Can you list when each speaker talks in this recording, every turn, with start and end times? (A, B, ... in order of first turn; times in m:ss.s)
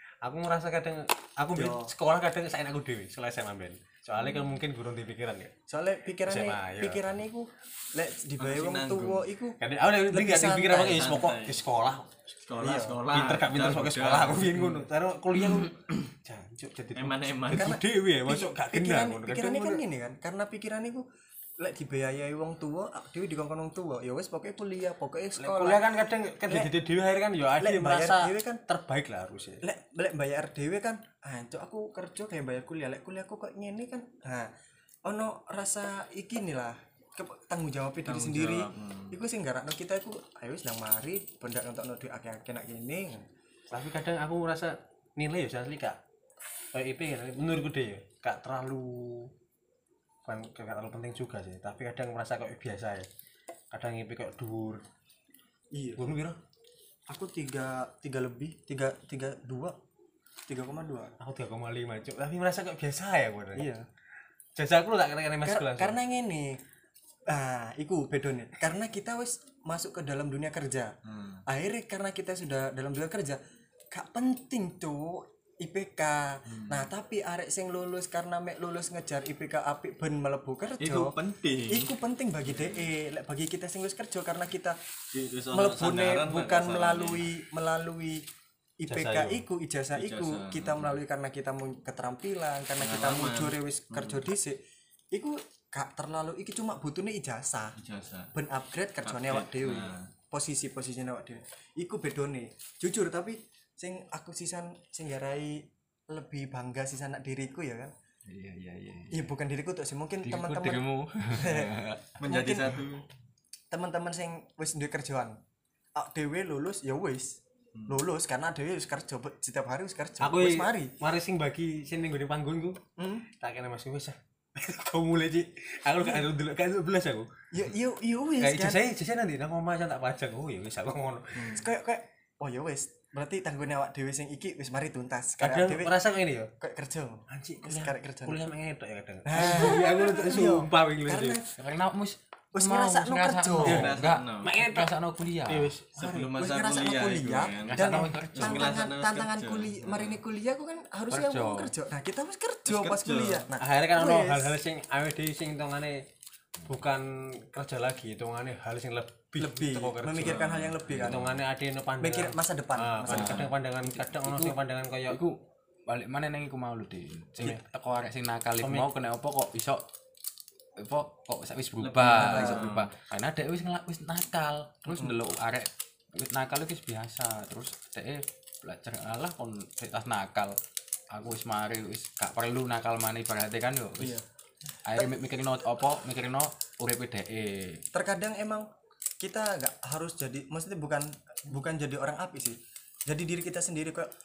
0:00.2-0:05.5 A
0:01.5-0:01.9 B
0:04.2-0:04.6 C
0:05.7-0:09.6 B
0:06.2-0:07.0 A
0:08.4-0:09.3 C
0:09.6-0:19.8 A
0:10.1-0:11.0 B
0:10.9-0:11.6 C
0:12.4-0:14.6 C
0:12.6-0:13.0 B
0:16.9-0:17.8 C
0:17.5-0:21.0 B
0:21.6-0:26.7 B
0:25.4-0:29.6 A
0:27.6-0:28.6 B
0:29.6-0:34.5 B
0:35.0-0:43.3 B
0:38.0-0:39.2 C
0:43.7-0:46.0 A
0:46.7-0:49.3 A
0:50.2-0:53.1 A
0:53.7-0:54.8 A
0:55.7-0:56.1 B
0:56.0-0:56.4 A
0:57.1-0:59.8 B
1:00.5-1:01.1 B
1:01.2-1:03.7 A
1:03.6-1:03.9 B
1:04.6-1:06.0 A
1:05.4-1:06.6 B
1:07.3-1:10.9 B
1:11.1-1:11.4 C
1:11.4-1:13.4 B
1:13.9-1:21.2 B
1:16.5-1:16.9 C
1:20.8-1:21.9 C
1:21.7-1:24.8 B
1:22.4-1:22.9 C
1:25.1-1:27.3 C
1:25.5-1:28.3 B
1:28.8-1:34.6 B
1:28.9-1:29.4 A
1:29.9-1:31.0 C
1:32.8-1:34.2 C
1:35.1-1:37.8 B
1:37.8-1:38.3 C
1:38.3-1:47.9 B
1:39.0-1:40.1 C
1:48.3-1:49.2 D
1:49.1-1:52.8 B
1:50.2-1:52.0 D
1:52.2-1:53.0 C
1:53.7-1:55.4 B
1:55.9-2:00.9 B
2:00.2-2:02.8 A
2:03.0-2:03.3 B
2:03.3-2:07.3 A
2:06.0-2:06.2 B
2:07.5-2:08.8 B
2:08.4-2:11.6 A
2:11.4-2:16.0 B
2:15.4-2:16.5 A
2:16.6-2:18.4 B
2:17.3-2:21.4 A
2:19.2-2:21.5 B
2:21.6-2:25.7 D
2:22.5-2:24.0 B
2:23.6-2:24.6 C
2:24.4-2:24.9 A
2:25.4-2:26.3 A
2:25.9-2:30.2 C
2:26.2-2:34.6 B
2:27.7-2:28.8 D
2:31.1-2:31.7 D
2:32.6-2:33.5 C
2:33.6-2:36.0 A
2:36.7-2:40.4 A
2:39.4-2:41.3 B
2:40.2-2:41.0 C
2:40.9-2:45.2 A
2:42.0-2:43.5 B
2:43.1-2:43.5 D
2:44.0-2:44.5 D
2:45.9-2:49.8 D
2:48.6-2:48.9 A
2:50.8-3:00.5 D
2:51.8-2:52.9 C
2:52.1-2:52.7 B
2:54.9-2:55.2 B
3:01.1-3:04.2 D
3:04.0-3:04.2 B
3:04.9-3:07.8 D
3:07.9-3:08.7 B
3:09.2-3:14.1 B